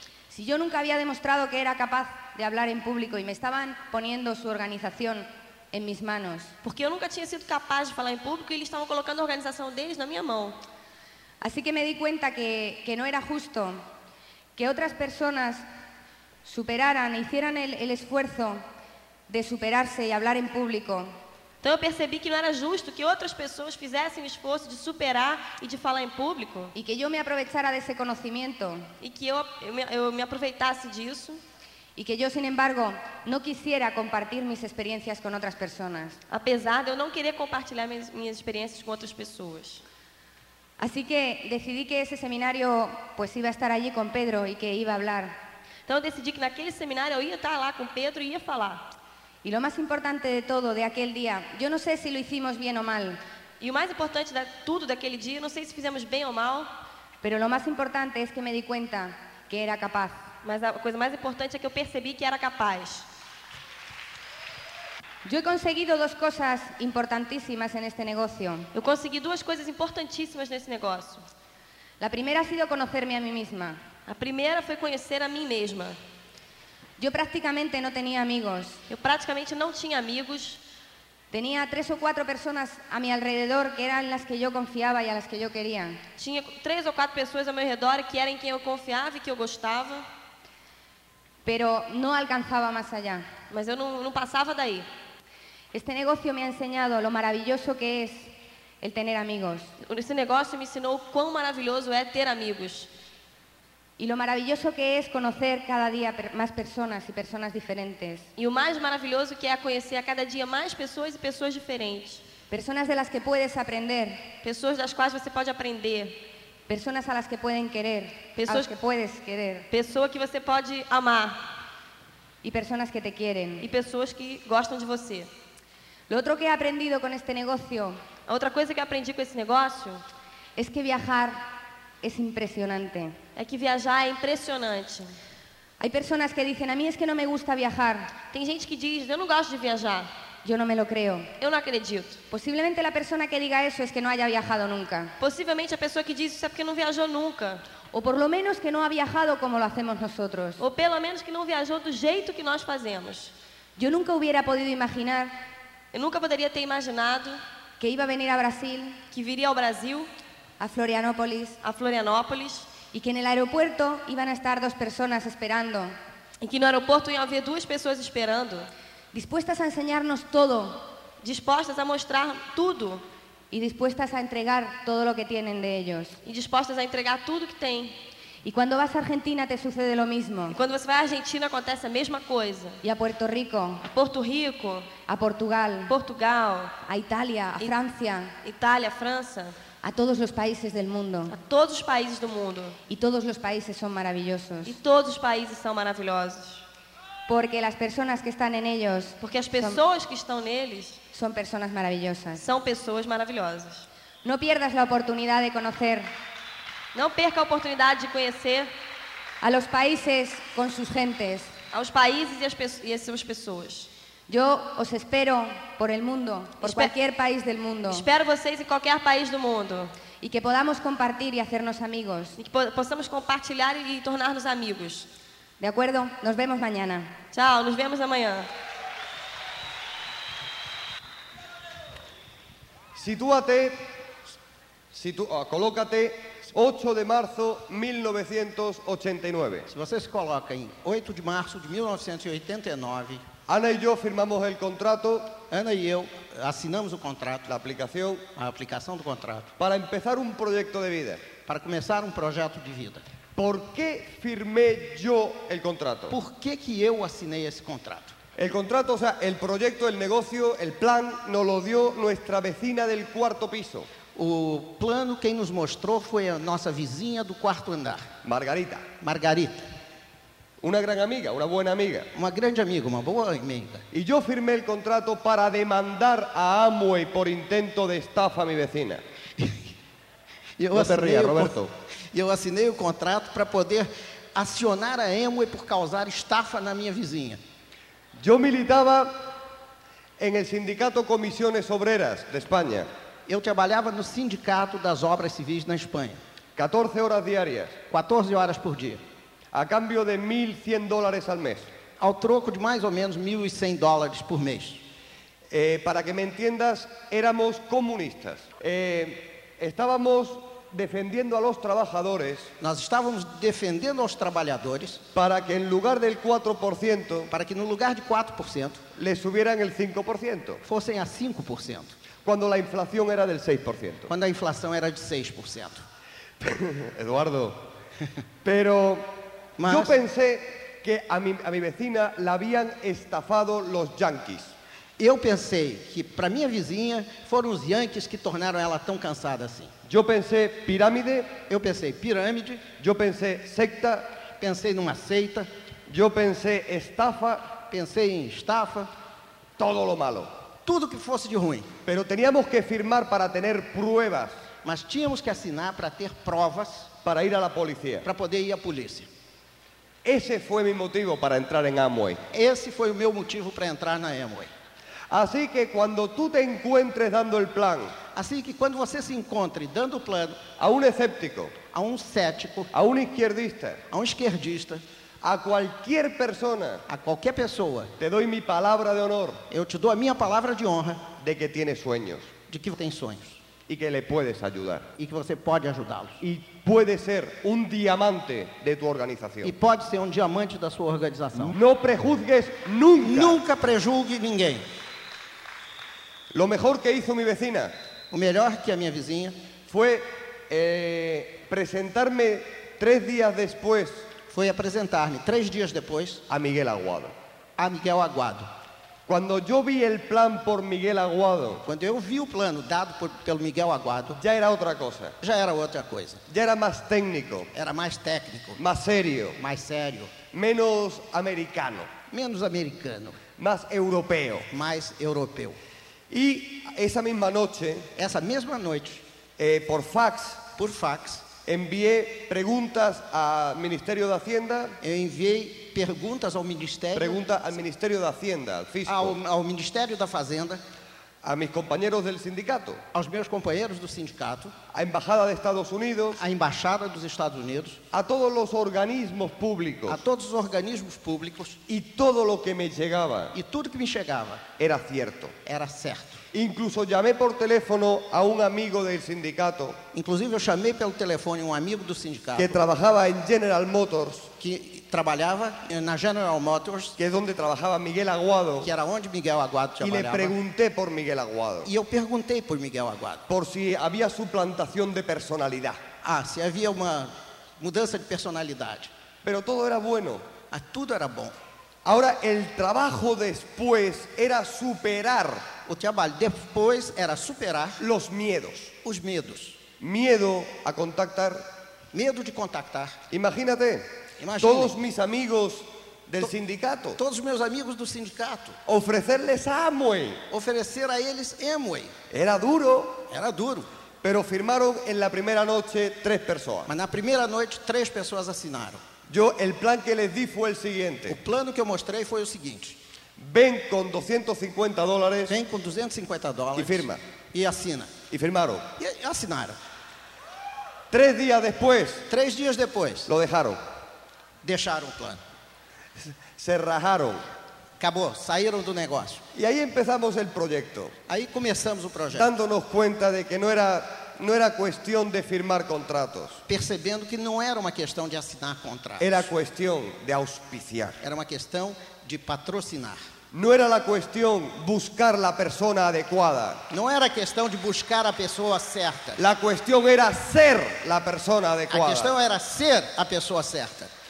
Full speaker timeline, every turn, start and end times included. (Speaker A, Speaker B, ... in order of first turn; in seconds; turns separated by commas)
Speaker A: 0.3-6.5, Speaker B: 6.6-10.6, Speaker A: 11.4-13.8, Speaker A: 14.6-15.6, Speaker A: 16.4-18.6, Speaker A: 19.3-21.1, Speaker B: 21.6-26.7, Speaker A: 26.8-28.9, Speaker B: 29.0-31.4, Speaker A: 32.0-36.2, Speaker B: 36.3-39.8, Speaker A: 40.8-45.4, Speaker B: 45.9-48.9, Speaker A: 49.4-53.2, Speaker B: 53.6-56.7, Speaker A: 57.2-60.2, Speaker B: 60.4-63.1, Speaker A: 65.2-68.7, Speaker B: 68.7-71.3, Speaker A: 72.0-73.8, Speaker B: 74.1-76.0, Speaker A: 77.0-78.8, Speaker B: 78.9-80.6, Speaker A: 81.3-86.0, Speaker B: 86.2-90.1, Speaker A: 91.4-93.3, Speaker B: 93.5-94.9, Speaker A: 95.7-99.7, Speaker B: 99.8-102.9, Speaker A: 104.0-108.3, Speaker B: 108.4-112.2, Speaker A: 112.5-114.3, Speaker B: 114.4-116.2, Speaker A: 116.7-119.7, Speaker B: 118.4-118.7, Speaker B: 119.7-121.6, Speaker A: 122.4-123.7, Speaker B: 123.6-125.3, Speaker A: 126.1-128.0, Speaker B: 128.3-130.0, Speaker A: 130.6-131.5, Speaker A: 132.0-133.2, Speaker B: 133.4-135.1, Speaker A: 135.8-138.1, Speaker B: 138.3-140.1, Speaker A: 140.4-141.3, Speaker B: 141.4-142.2, Speaker A: 142.3-145.1, Speaker B: 145.2-147.6, Speaker A: 147.9-150.6, Speaker B: 150.6-153.3, Speaker A: 153.8-155.3, Speaker B: 155.9-157.4, Speaker A: 157.8-159.0, Speaker B: 159.1-160.1, Speaker A: 160.6-161.6, Speaker B: 161.6-162.7, Speaker A: 162.9-165.9, Speaker B: 166.4-168.7, Speaker A: 169.1-170.8, Speaker B: 171.2-173.0, Speaker A: 173.5-176.2, Speaker B: 176.2-178.0, Speaker A: 178.4-180.6, Speaker B: 180.5-182.8, Speaker A: 182.8-183.8, Speaker B: 183.8-184.9, Speaker A: 185.1-185.9, Speaker B: 185.9-186.8, Speaker A: 186.9-188.3, Speaker B: 188.4-189.6, Speaker A: 189.8-191.3, Speaker B: 191.3-192.8, Speaker A: 192.9-194.8, Speaker B: 194.7-196.6, Speaker A: 197.3-199.8, Speaker B: 199.2-201.0, Speaker A: 201.1-202.4, Speaker B: 202.4-203.9, Speaker A: 204.2-206.1, Speaker B: 206.9-208.7, Speaker A: 209.4-211.5, Speaker B: 211.7-213.9, Speaker A: 214.3-218.1, Speaker B: 216.6-216.9, Speaker B: 217.9-219.9, Speaker A: 220.2-222.4, Speaker B: 222.4-225.1, Speaker A: 225.6-227.2, Speaker B: 227.3-228.5, Speaker C: 232.9-233.8, Speaker C: 234.9-239.7, Speaker D: 239.7-243.2, Speaker C: 243.5-245.4, Speaker D: 245.5-247.5, Speaker C: 247.5-248.2, Speaker D: 248.3-249.5, Speaker C: 249.6-251.3, Speaker D: 251.4-253.1, Speaker C: 253.4-256.2, Speaker D: 256.1-258.2, Speaker C: 258.4-263.9, Speaker D: 264.1-268.1, Speaker C: 268.2-268.9, Speaker D: 269.0-269.7, Speaker C: 270.6-272.1, Speaker D: 272.1-273.9, Speaker C: 273.9-279.0, Speaker D: 279.4-279.7, Speaker D: 280.6-281.6, Speaker C: 280.7-281.7, Speaker D: 282.1-287.4, Speaker C: 288.2-289.2, Speaker C: 290.2-292.9, Speaker D: 293.3-296.2, Speaker C: 296.6-297.8, Speaker D: 297.9-299.0, Speaker C: 299.5-301.7, Speaker D: 302.0-304.8, Speaker C: 305.5-312.5, Speaker D: 312.6-315.0, Speaker C: 315.1-317.3, Speaker D: 317.3-318.9, Speaker C: 318.9-320.6, Speaker D: 320.6-321.9, Speaker C: 322.2-324.1, Speaker D: 324.1-325.8, Speaker C: 326.4-327.6, Speaker C: 328.4-334.5, Speaker D: 329.6-329.9, Speaker D: 335.0-339.7, Speaker C: 339.9-341.4, Speaker D: 341.5-342.7, Speaker C: 342.8-344.1, Speaker D: 344.4-345.5, Speaker C: 345.9-347.6, Speaker D: 347.7-348.9, Speaker C: 349.6-350.3, Speaker D: 350.6-351.7, Speaker C: 351.9-354.4, Speaker D: 354.6-356.9, Speaker C: 357.0-358.1, Speaker D: 358.0-359.1, Speaker C: 360.1-362.2, Speaker D: 362.3-364.5, Speaker C: 365.1-368.0, Speaker D: 368.1-370.4, Speaker C: 370.6-371.6, Speaker D: 371.7-372.7, Speaker C: 372.7-373.8, Speaker D: 373.9-374.8, Speaker C: 375.2-376.8, Speaker D: 376.9-377.9, Speaker C: 378.0-379.4, Speaker D: 379.5-381.1, Speaker C: 381.2-382.3, Speaker D: 382.5-383.4, Speaker C: 383.7-384.9, Speaker D: 385.0-386.2, Speaker C: 386.2-389.5, Speaker D: 389.4-391.6, Speaker C: 391.4-393.4, Speaker D: 393.0-394.7, Speaker C: 396.3-397.7, Speaker D: 398.1-399.4, Speaker C: 399.7-404.1, Speaker D: 404.3-406.2, Speaker C: 406.3-407.1, Speaker D: 407.6-408.5, Speaker C: 409.1-411.6, Speaker D: 411.6-414.2, Speaker C: 414.2-415.1, Speaker D: 415.2-416.2, Speaker C: 416.3-417.5, Speaker D: 417.5-418.6, Speaker C: 418.6-419.4, Speaker D: 419.4-420.1, Speaker C: 420.3-421.9, Speaker D: 422.1-423.2, Speaker C: 423.4-424.5, Speaker D: 424.5-425.6, Speaker C: 426.1-427.9, Speaker D: 427.9-429.0, Speaker C: 429.4-430.5, Speaker D: 430.6-431.3, Speaker C: 431.4-434.8, Speaker D: 434.8-437.2, Speaker C: 436.9-439.1, Speaker D: 438.9-440.6, Speaker C: 441.2-442.8, Speaker D: 442.9-444.6, Speaker C: 444.7-446.2, Speaker D: 446.2-447.8, Speaker C: 447.9-450.0, Speaker D: 449.9-451.6, Speaker C: 451.7-453.3, Speaker D: 453.3-454.4, Speaker C: 454.6-455.4, Speaker D: 455.4-456.2, Speaker C: 456.3-459.8, Speaker D: 459.9-462.6, Speaker C: 462.4-464.3, Speaker D: 464.4-467.0, Speaker C: 467.0-468.7, Speaker D: 468.6-470.4, Speaker C: 469.8-471.7, Speaker D: 471.6-473.2, Speaker C: 473.3-475.8, Speaker D: 476.0-478.9, Speaker C: 479.2-480.3, Speaker D: 480.5-481.3, Speaker C: 481.9-485.5, Speaker D: 485.7-487.8, Speaker C: 487.8-488.7, Speaker D: 488.8-489.6, Speaker C: 489.8-491.4, Speaker D: 491.9-493.0, Speaker C: 493.1-493.9, Speaker D: 494.2-494.8, Speaker C: 494.4-497.0, Speaker D: 497.0-498.6, Speaker C: 498.7-500.2, Speaker D: 500.3-501.9, Speaker C: 502.1-503.0, Speaker D: 503.1-503.7, Speaker C: 504.0-506.7, Speaker D: 506.7-508.8, Speaker C: 509.1-511.2, Speaker D: 511.1-512.8, Speaker C: 513.2-515.4, Speaker D: 515.3-518.0, Speaker C: 516.5-517.0, Speaker C: 518.1-518.7, Speaker D: 518.8-519.6, Speaker C: 520.9-522.1, Speaker D: 522.1-523.1, Speaker C: 523.1-523.6, Speaker D: 524.4-525.2, Speaker C: 526.0-527.2, Speaker D: 527.8-529.2, Speaker C: 529.4-531.0, Speaker D: 531.1-532.3, Speaker C: 532.1-536.4, Speaker D: 536.5-539.3, Speaker C: 539.0-541.0, Speaker D: 541.0-543.0, Speaker C: 543.3-546.6, Speaker D: 546.7-549.2, Speaker C: 549.2-552.1, Speaker D: 551.7-553.9